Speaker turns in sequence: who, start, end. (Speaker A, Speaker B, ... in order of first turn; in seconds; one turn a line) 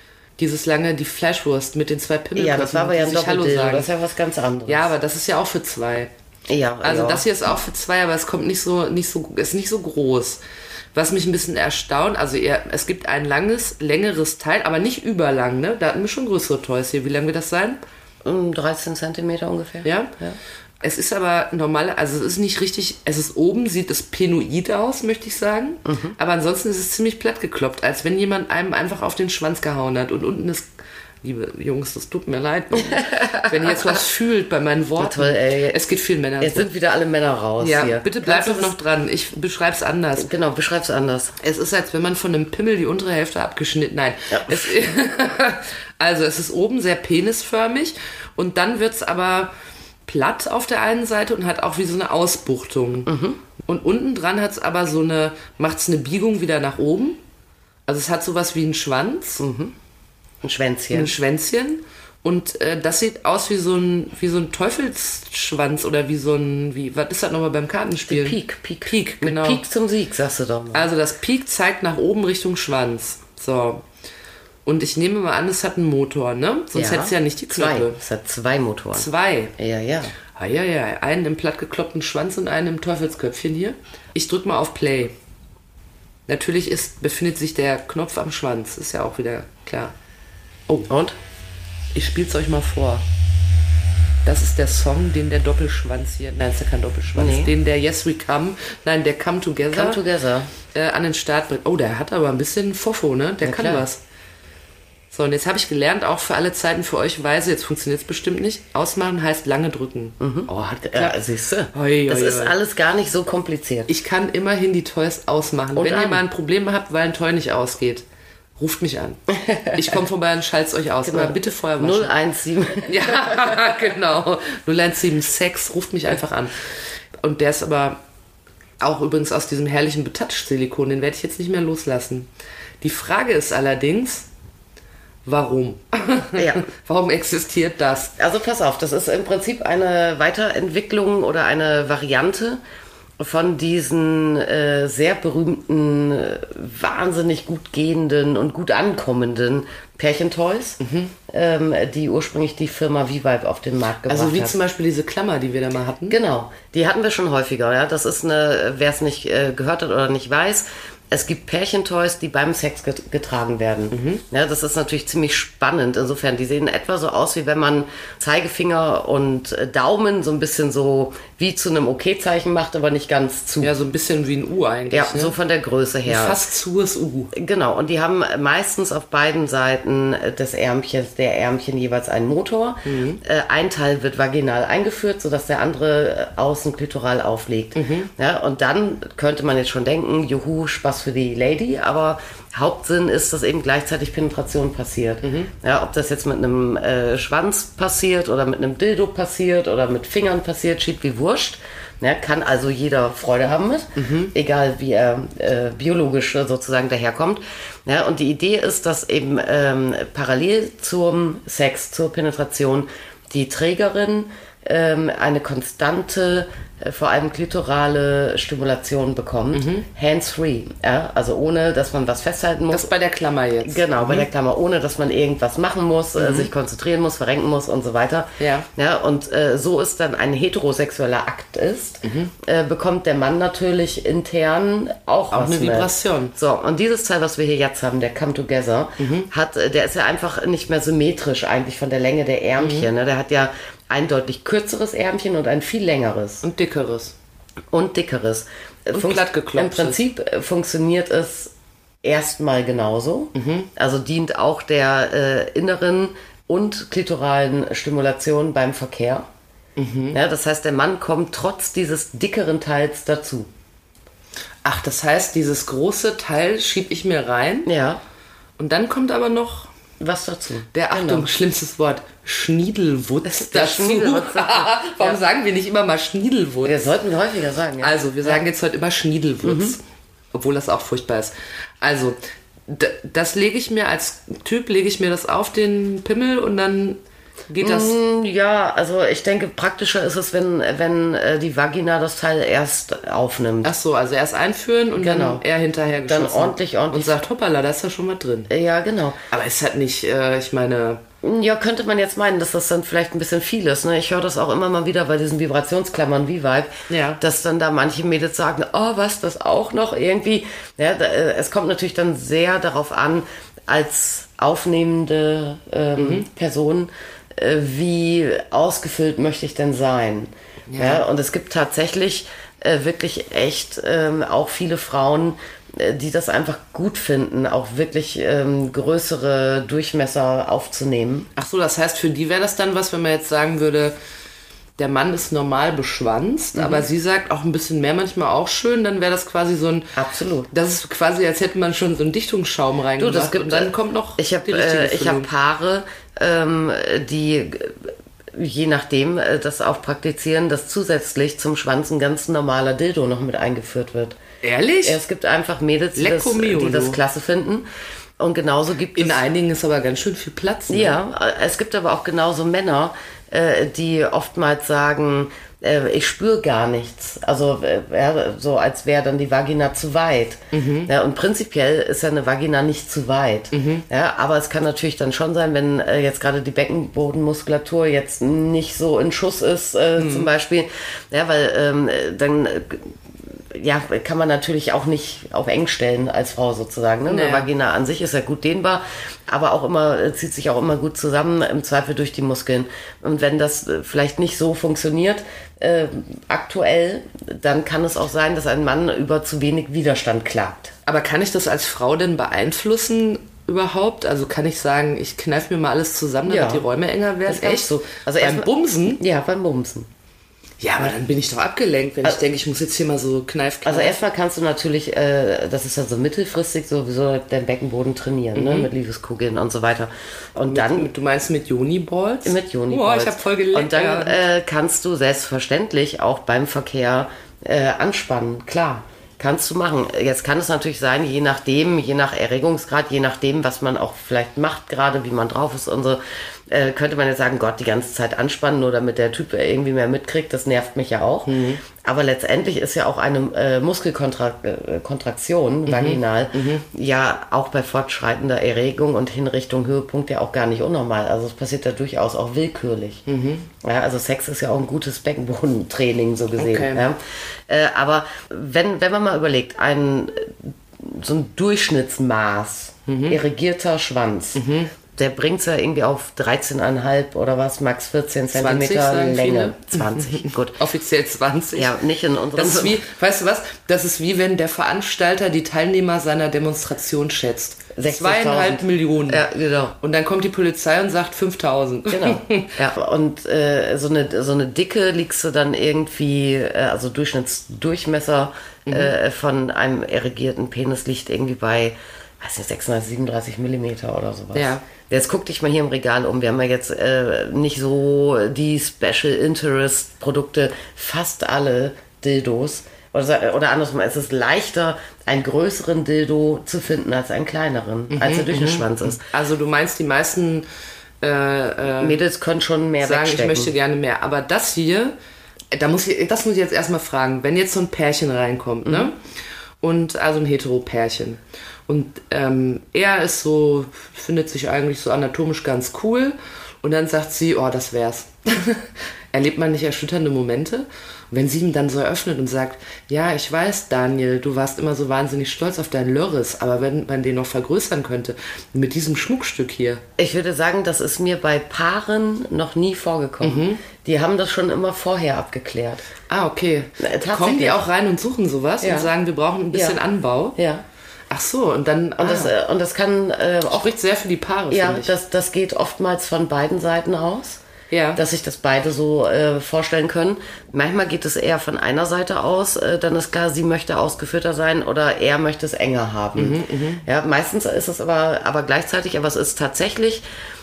Speaker A: 0.4-3.9
Speaker B: 2.4-4.9
Speaker A: 4.7-6.1
Speaker B: 6.5-7.2
Speaker A: 6.8-10.4
Speaker A: 10.9-17.8
Speaker B: 18.2-20.4
Speaker A: 19.8-20.1
Speaker A: 20.8-30.7
Speaker B: 25.9-26.1
Speaker A: 31.2-36.7
Speaker B: 32.8-34.0
Speaker B: 35.0-35.8
Speaker B: 36.4-38.7
Speaker A: 37.6-40.3
Speaker B: 40.2-41.3
Speaker A: 41.4-49.5
Speaker B: 44.3-44.8
Speaker A: 50.0-53.1
Speaker B: 53.1-53.4
Speaker A: 53.6-57.2
Speaker A: 57.9-59.4
Speaker B: 59.4-59.7
Speaker B: 60.4-61.1
Speaker A: 60.9-69.6
Speaker B: 68.1-70.9
Speaker A: 70.7-73.8
Speaker A: 74.6-78.0
Speaker B: 76.7-80.2
Speaker A: 78.9-79.5
Speaker A: 80.3-85.1
Speaker A: 86.3-89.9
Speaker B: 90.9-91.2
Speaker A: 91.9-93.0
Speaker A: 94.2-100.0
Speaker B: 97.2-97.5
Speaker B: 99.7-100.5
Speaker A: 100.7-104.0
Speaker B: 103.4-103.8
Speaker A: 105.1-111.2
Speaker B: 110.2-113.9
Speaker A: 111.7-112.5
Speaker A: 113.9-118.0
Speaker B: 115.7-116.2
Speaker A: 118.6-122.1
Speaker B: 119.4-119.9
Speaker B: 121.0-123.6
Speaker A: 122.8-128.0
Speaker A: 128.8-132.3
Speaker A: 132.8-134.3
Speaker A: 135.2-138.1
Speaker B: 136.3-136.6
Speaker B: 138.2-142.6
Speaker B: 143.2-154.6
Speaker A: 150.8-151.1
Speaker A: 154.1-156.2
Speaker B: 156.1-173.7
Speaker A: 163.9-164.2
Speaker A: 173.6-175.3
Speaker B: 174.9-176.4
Speaker A: 176.1-177.3
Speaker B: 177.3-222.9
Speaker A: 182.8-183.2
Speaker A: 187.7-188.1
Speaker A: 195.2-195.5
Speaker A: 203.9-204.3
Speaker A: 219.5-219.8
Speaker A: 222.7-224.3
Speaker B: 223.6-246.4
Speaker A: 226.2-226.5
Speaker A: 228.4-228.7
Speaker A: 232.0-232.3
Speaker A: 235.3-236.3
Speaker A: 239.0-239.3
Speaker A: 242.6-242.9
Speaker A: 246.4-247.1
Speaker B: 247.7-259.3
Speaker A: 248.9-250.0
Speaker A: 253.3-253.7
Speaker A: 259.8-260.2
Speaker B: 260.1-263.5
Speaker A: 264.6-267.7
Speaker B: 267.6-268.0
Speaker A: 268.6-269.7
Speaker B: 270.0-271.3
Speaker A: 270.7-276.8
Speaker B: 273.2-275.2
Speaker B: 276.6-278.4
Speaker A: 277.8-279.8
Speaker B: 279.4-279.7
Speaker A: 280.3-288.0
Speaker B: 287.6-293.7
Speaker A: 293.6-298.5
Speaker B: 294.9-295.4
Speaker B: 296.1-297.2
Speaker B: 298.5-299.2
Speaker A: 299.3-301.0
Speaker B: 301.2-331.3
Speaker A: 306.9-307.2
Speaker A: 316.0-316.2
Speaker A: 320.7-321.0
Speaker A: 331.4-333.9
Speaker A: 334.8-339.9
Speaker B: 336.5-336.9
Speaker B: 339.9-340.5
Speaker A: 340.5-345.3
Speaker B: 343.0-354.2
Speaker A: 354.4-355.0
Speaker B: 354.8-357.6
Speaker A: 355.9-357.0
Speaker B: 358.2-359.2
Speaker A: 358.9-360.9
Speaker B: 360.7-400.7
Speaker A: 370.5-370.9
Speaker A: 373.5-373.8
Speaker A: 380.0-380.3
Speaker A: 387.1-387.5
Speaker A: 400.9-409.0
Speaker B: 406.3-406.7
Speaker B: 407.2-409.9
Speaker A: 410.6-414.0
Speaker B: 413.6-420.9
Speaker A: 418.3-418.7
Speaker A: 420.5-424.2
Speaker B: 422.2-453.0
Speaker A: 441.2-441.6
Speaker A: 445.6-446.6
Speaker A: 453.1-453.5
Speaker B: 453.6-470.6
Speaker A: 456.4-456.8
Speaker A: 462.9-463.2
Speaker A: 464.3-464.7
Speaker A: 468.3-471.7
Speaker B: 471.6-472.8
Speaker A: 472.3-479.2
Speaker B: 477.7-479.8
Speaker A: 479.8-482.6
Speaker B: 481.9-509.0
Speaker A: 488.6-488.9
Speaker A: 494.3-494.6
Speaker A: 507.9-510.4
Speaker A: 511.0-512.0
Speaker B: 511.8-513.5
Speaker A: 512.8-514.9
Speaker A: 515.5-519.0
Speaker A: 519.6-539.8
Speaker B: 540.0-545.8
Speaker A: 543.2-543.6
Speaker A: 546.1-550.4
Speaker B: 546.8-547.6
Speaker B: 548.6-548.9
Speaker B: 549.5-549.8
Speaker B: 550.4-550.6
Speaker A: 551.1-552.3
Speaker B: 552.0-553.7
Speaker A: 553.5-554.9
Speaker B: 554.5-557.4
Speaker A: 557.7-558.0
Speaker B: 558.0-570.0
Speaker A: 566.1-566.8